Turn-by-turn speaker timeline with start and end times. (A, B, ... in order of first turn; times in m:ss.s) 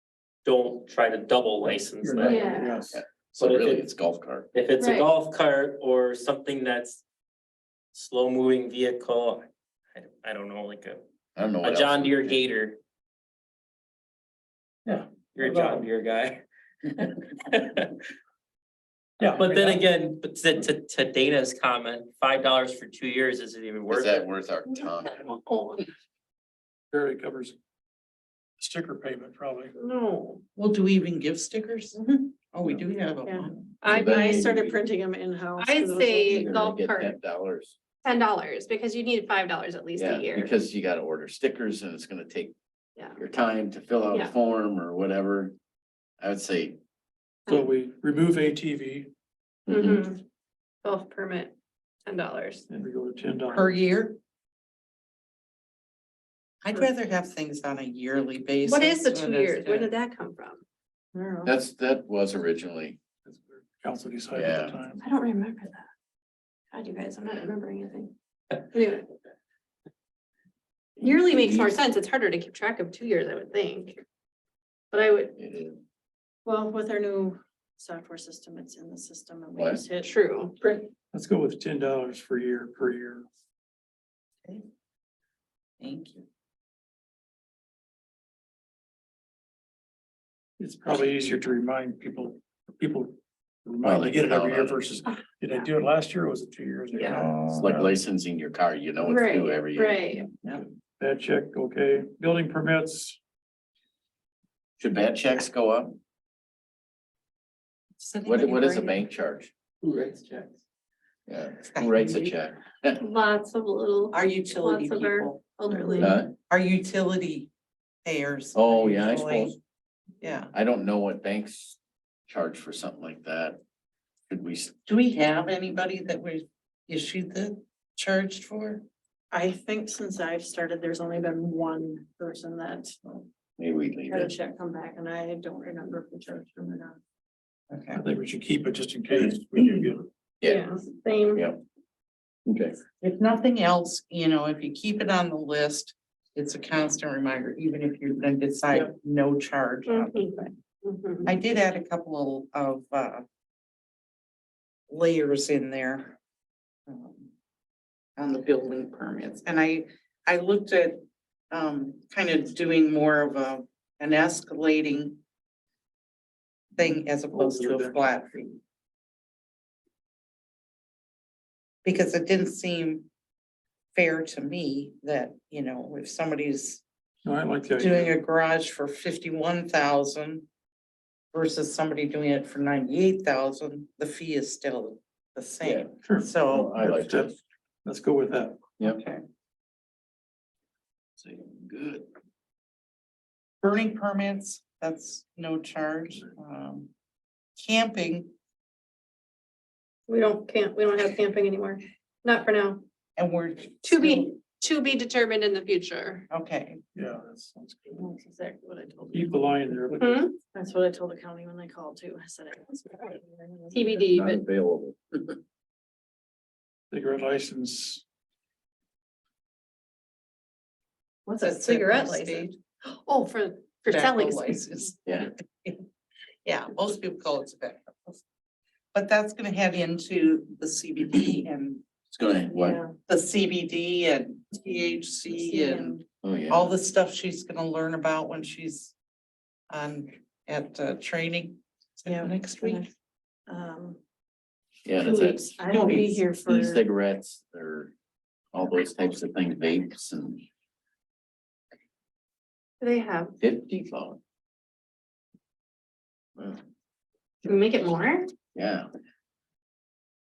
0:00.4-0:02.6 A
0:02.0-0:03.0 B
0:02.2-0:02.8 C
0:02.2-0:04.5 D
0:03.4-0:03.8 A
0:04.5-0:07.0 A
0:04.8-0:05.1 C
0:07.9-0:11.0 A
0:11.4-0:12.4 D
0:11.6-0:12.8 A
0:14.8-0:15.8 B
0:15.3-0:17.9 A
0:19.2-0:19.8 B
0:19.3-0:24.3 A
0:23.9-0:25.2 D
0:26.9-0:27.6 B
0:28.6-0:29.7 B
0:29.8-0:30.4 C
0:30.6-0:33.5 E
0:33.2-0:36.5 F
0:33.8-0:34.8 D
0:35.6-0:37.2 C
0:36.3-0:37.7 D
0:38.0-0:40.6 C
0:40.0-0:42.5 D
0:43.2-0:45.6 D
0:46.2-0:46.8 D
0:47.5-0:49.1 B
0:49.7-0:50.2 C
0:49.7-0:50.0 D
0:50.8-0:51.5 C
0:52.0-0:52.7 C
0:52.7-0:53.7 B
0:53.5-0:54.2 E
0:56.6-0:59.9 E
0:58.6-1:00.6 C
1:01.1-1:01.5 F
1:01.4-1:03.0 D
1:03.2-1:05.0 B
1:04.3-1:04.8 D
1:05.0-1:05.9 C
1:06.7-1:08.1 C
1:08.6-1:09.1 C
1:11.0-1:11.7 D
1:11.0-1:14.0 C
1:14.9-1:15.3 C
1:15.4-1:15.8 D
1:16.4-1:20.9 F
1:19.6-1:19.8 D
1:20.0-1:20.5 C
1:21.1-1:23.2 B
1:25.8-1:26.2 E
1:30.6-1:37.9 B
1:33.8-1:34.8 D
1:36.9-1:37.2 C
1:37.1-1:37.4 E
1:37.6-1:40.0 D
1:39.0-1:40.3 C
1:40.5-1:43.2 B
1:44.8-1:46.0 D
1:48.0-1:49.0 E
1:48.2-1:49.5 D
1:49.8-1:50.5 A
1:51.3-1:53.0 D
1:51.7-1:52.3 E
1:53.0-1:56.2 C
1:54.1-1:57.5 E
1:56.0-1:56.3 D
1:58.0-1:59.6 E
1:58.5-1:59.5 D
2:00.2-2:00.5 E
2:00.5-2:03.6 D
2:04.3-2:04.7 D
2:04.9-2:08.8 E
2:09.3-2:13.2 F
2:13.6-2:14.3 D
2:14.1-2:17.0 F
2:17.7-2:18.0 E
2:17.9-2:20.1 B
2:20.4-2:20.7 D
2:20.4-2:21.4 C
2:21.3-2:21.6 D
2:22.5-2:22.8 D
2:23.0-2:30.6 E
2:29.9-2:31.3 C
2:31.2-2:33.2 E
2:34.9-2:36.2 E
2:36.9-2:37.3 E
2:38.2-2:45.2 E
2:46.8-2:48.6 E
2:46.8-2:47.9 B
2:51.8-2:53.1 E
2:53.9-2:56.8 E
2:57.2-2:58.1 B
2:57.8-3:00.4 E
3:01.3-3:06.8 E
3:05.6-3:05.9 D
3:06.0-3:08.7 B
3:06.4-3:07.3 D
3:08.8-3:09.2 E
3:11.2-3:12.1 D
3:13.6-3:16.9 E
3:17.6-3:18.3 E
3:20.1-3:22.8 C
3:23.2-3:24.3 E
3:23.8-3:26.3 C
3:26.3-3:26.8 E
3:26.9-3:28.1 B
3:28.0-3:29.4 F
3:29.1-3:30.2 B
3:30.0-3:30.4 C
3:30.5-3:34.0 F
3:33.7-3:34.4 C
3:34.1-3:35.3 D
3:36.9-3:38.0 B
3:41.2-3:44.6 C
3:41.4-3:42.6 E
3:43.9-3:45.8 E
3:46.4-3:48.2 E
3:48.9-3:51.8 E
3:52.1-3:52.8 D
3:52.6-3:52.9 F
3:53.1-3:56.0 E
3:55.3-3:56.0 F
3:56.2-3:56.7 D
3:56.5-3:58.9 E
3:59.7-4:02.8 E
4:02.1-4:02.9 F
4:03.5-4:04.0 F
4:04.8-4:05.8 D
4:05.0-4:06.8 F
4:05.7-4:06.2 E
4:06.4-4:07.9 D
4:08.5-4:10.4 D
4:12.8-4:13.3 C
4:13.4-4:14.2 D
4:16.4-4:16.6 D
4:17.4-4:18.3 C
4:18.5-4:18.9 D